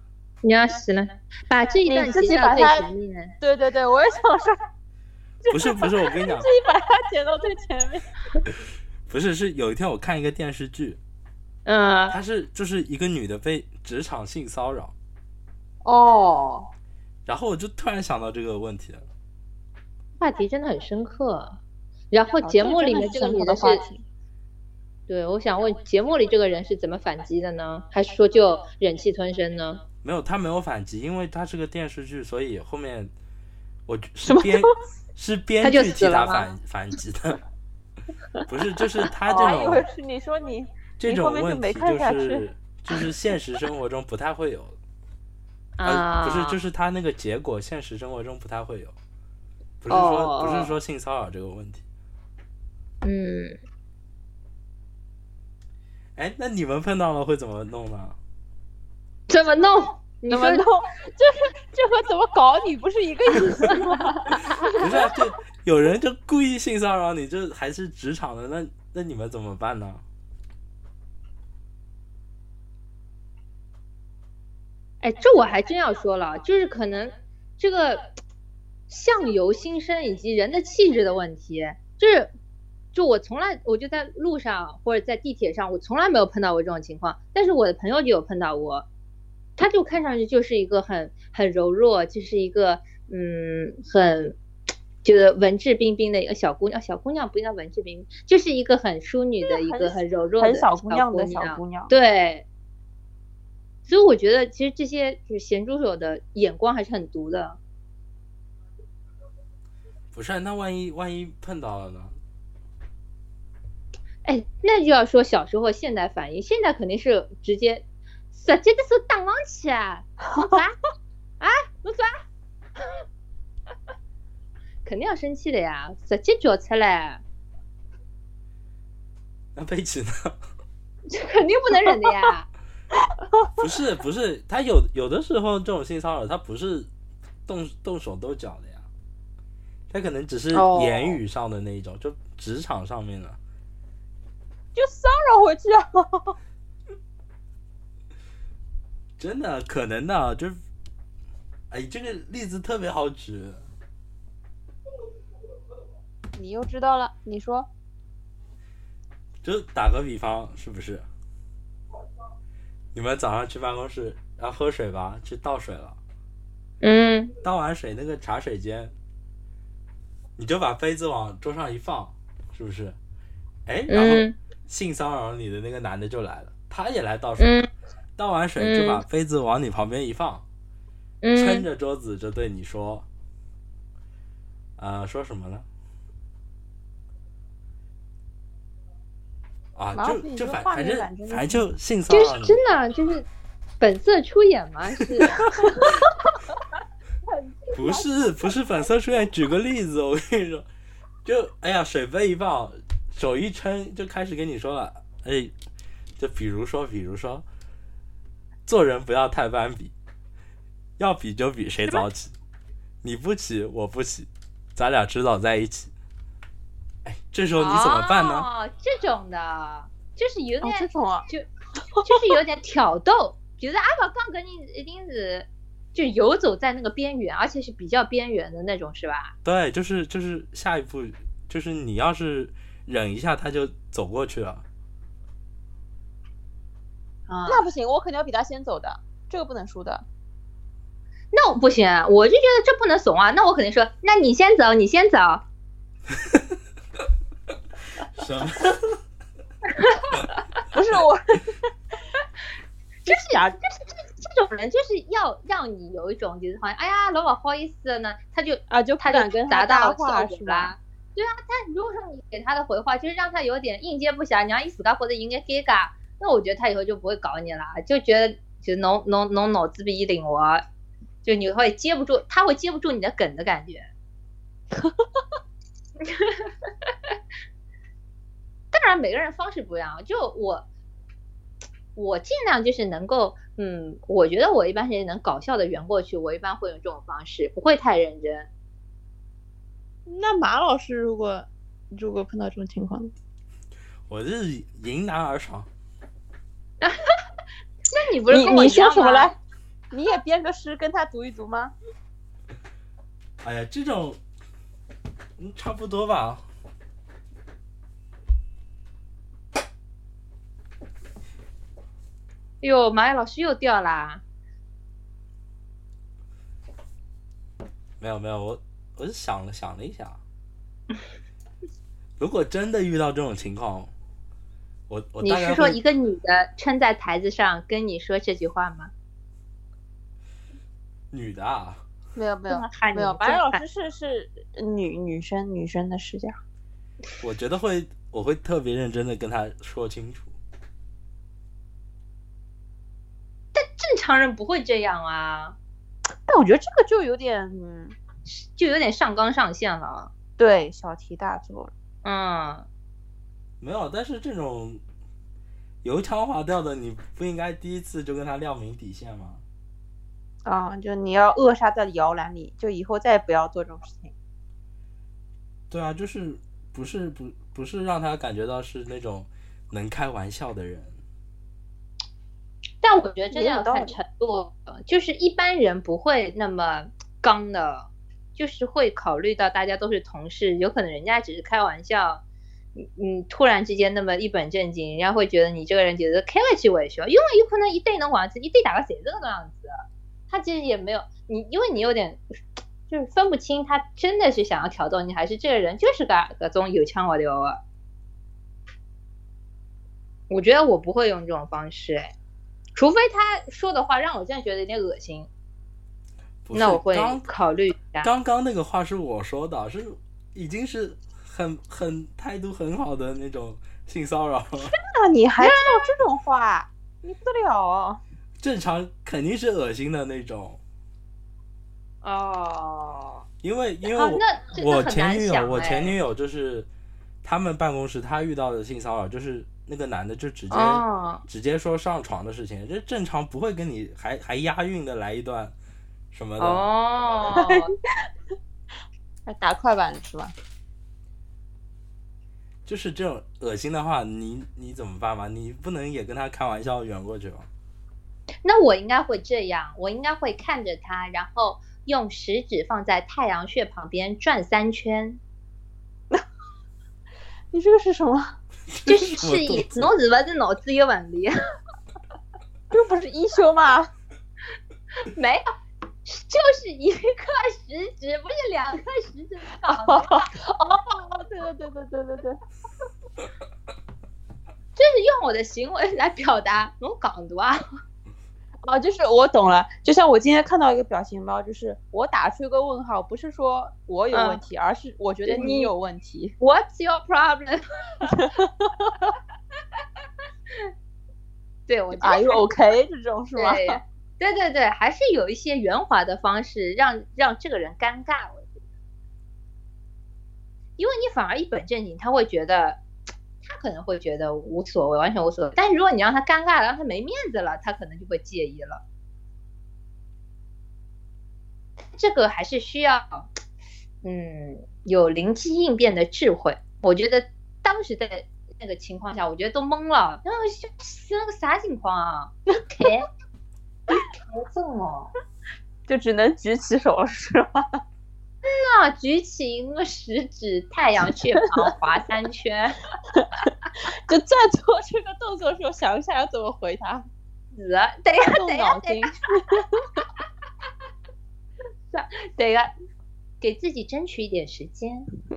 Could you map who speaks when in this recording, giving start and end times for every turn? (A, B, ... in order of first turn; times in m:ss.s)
0:00.4-0:03.4 A
0:01.9-0:04.6 B
0:05.4-0:08.1 B
0:05.5-0:06.5 C
0:09.1-0:11.0 C
0:11.7-0:12.2 A
0:12.1-0:14.9 C
0:15.8-0:16.7 B
0:17.3-0:19.0 C
0:20.2-0:21.6 A
0:22.1-0:23.8 A
0:22.4-0:24.0 B
0:25.1-0:29.8 A
0:30.0-0:33.1 C
0:33.9-0:37.4 C
0:34.2-0:34.7 B
0:35.6-0:36.5 A
0:38.5-0:39.8 C
0:39.3-0:39.8 A
0:39.3-0:42.5 B
0:41.0-0:44.8 C
0:45.8-0:46.6 A
0:45.8-0:49.0 C
0:49.8-0:51.8 C
0:49.9-0:50.7 A
0:53.0-0:53.6 A
0:56.2-0:58.2 C
0:59.3-1:00.6 A
1:00.3-1:04.9 B
1:04.7-1:10.0 C
1:15.0-1:18.1 A
1:18.9-1:22.3 A
1:22.9-1:28.9 A
1:29.6-1:34.4 A
1:35.0-1:42.5 A
1:39.4-1:41.9 B
1:43.9-1:47.6 A
1:50.1-1:52.2 C
1:54.2-2:00.8 A
2:01.4-2:02.1 A
2:04.8-2:07.2 A
2:09.6-2:10.4 C
2:11.1-2:12.5 A
2:13.6-2:16.9 C
2:17.5-2:18.9 C
2:19.9-2:23.4 C
2:20.5-2:21.2 A
2:24.8-2:26.4 B
2:29.2-2:30.6 C
2:31.7-2:33.7 C
2:36.4-2:37.7 B
2:39.4-2:41.1 C
2:43.0-2:46.0 C
2:46.8-2:47.4 A
2:47.4-2:48.9 C
2:50.4-2:53.0 C
2:53.7-2:57.6 C
2:53.9-2:54.4 A
2:57.4-2:57.7 A
2:58.2-3:00.4 C
2:58.6-2:59.0 A
3:01.2-3:01.6 A
3:01.4-3:03.1 C
3:04.8-3:05.7 C
3:09.8-3:12.6 C
3:10.0-3:11.6 B
3:12.1-3:13.3 A
3:13.8-3:15.9 A
3:17.7-3:20.7 C
3:17.8-3:18.0 A
3:21.2-3:25.5 C
3:26.2-3:27.4 C
3:28.7-3:29.9 C
3:31.0-3:32.3 C
3:33.0-3:35.9 C
3:37.0-3:38.5 C
3:37.6-3:41.5 A
3:40.6-3:41.3 B
3:42.0-3:49.3 A
3:49.4-3:54.6 C
3:57.3-3:57.6 A
3:57.5-4:00.0 B
4:01.3-4:05.4 A
4:08.0-4:09.0 C
4:10.7-4:11.5 B
4:13.0-4:30.6 A
4:13.1-4:13.6 B
4:18.7-4:20.8 B
4:31.2-4:33.9 A
4:36.0-4:36.5 A
4:38.7-4:40.7 A
4:42.0-4:48.5 A
4:50.1-4:53.1 B
4:54.1-4:55.7 C
4:57.9-4:59.4 A
4:58.3-4:59.4 B
4:59.9-5:01.7 B
5:03.4-5:04.2 C
5:05.4-5:06.4 C
5:12.6-5:14.2 A
5:18.0-5:20.2 C
5:22.2-5:23.9 C
5:24.9-5:25.8 C
5:25.2-5:28.9 A
5:31.1-5:31.8 C
5:32.2-5:36.4 B
5:32.5-5:33.6 A
5:37.2-5:40.4 C
5:43.6-5:45.6 A
5:46.3-5:48.0 B
5:48.3-5:50.1 A
5:50.4-5:51.7 B
5:52.0-5:52.7 A
5:53.6-5:54.8 C
5:55.8-5:59.4 C
6:00.4-6:04.1 B
6:05.7-6:11.0 C
6:12.8-6:22.2 A
6:13.3-6:14.0 B
6:22.8-6:29.7 A
6:30.3-6:32.2 A
6:32.9-6:37.6 A
6:40.3-6:42.1 A
6:42.8-6:45.3 A
6:46.4-6:47.3 C
6:46.5-6:48.1 A
6:48.0-6:54.7 C
6:55.0-6:58.0 B
6:55.4-6:55.9 A
6:58.4-7:00.6 C
7:02.0-7:03.2 A
7:03.4-7:06.7 C
7:03.9-7:06.0 A
7:07.2-7:15.6 C
7:10.5-7:11.2 A
7:16.1-7:16.6 C
7:16.4-7:17.7 A
7:17.3-7:17.7 B
7:19.3-7:20.3 B
7:22.7-7:27.5 C
7:28.4-7:35.2 A
7:37.5-7:38.4 B
7:38.8-7:39.9 C
7:38.9-7:41.3 A
7:42.7-7:43.9 B
7:45.1-7:45.4 A
7:46.1-7:50.3 A
7:49.8-7:52.4 B
7:54.8-7:57.6 A
7:58.6-8:06.4 B
8:04.1-8:04.4 A
8:05.3-8:05.7 A
8:06.4-8:08.2 A
8:08.1-8:08.9 B
8:11.7-8:12.4 A
8:12.0-8:13.8 B
8:13.4-8:18.5 A
8:20.8-8:22.8 A
8:23.4-8:28.8 A
8:32.0-8:33.3 A
8:34.0-8:43.1 A
8:43.9-8:45.1 A
8:45.9-8:47.8 B
8:48.4-8:52.9 A
8:53.1-8:53.5 B
8:54.1-8:57.0 B
8:57.5-8:59.1 A
8:58.2-8:59.9 B
9:01.9-9:02.7 A
9:03.4-9:05.1 A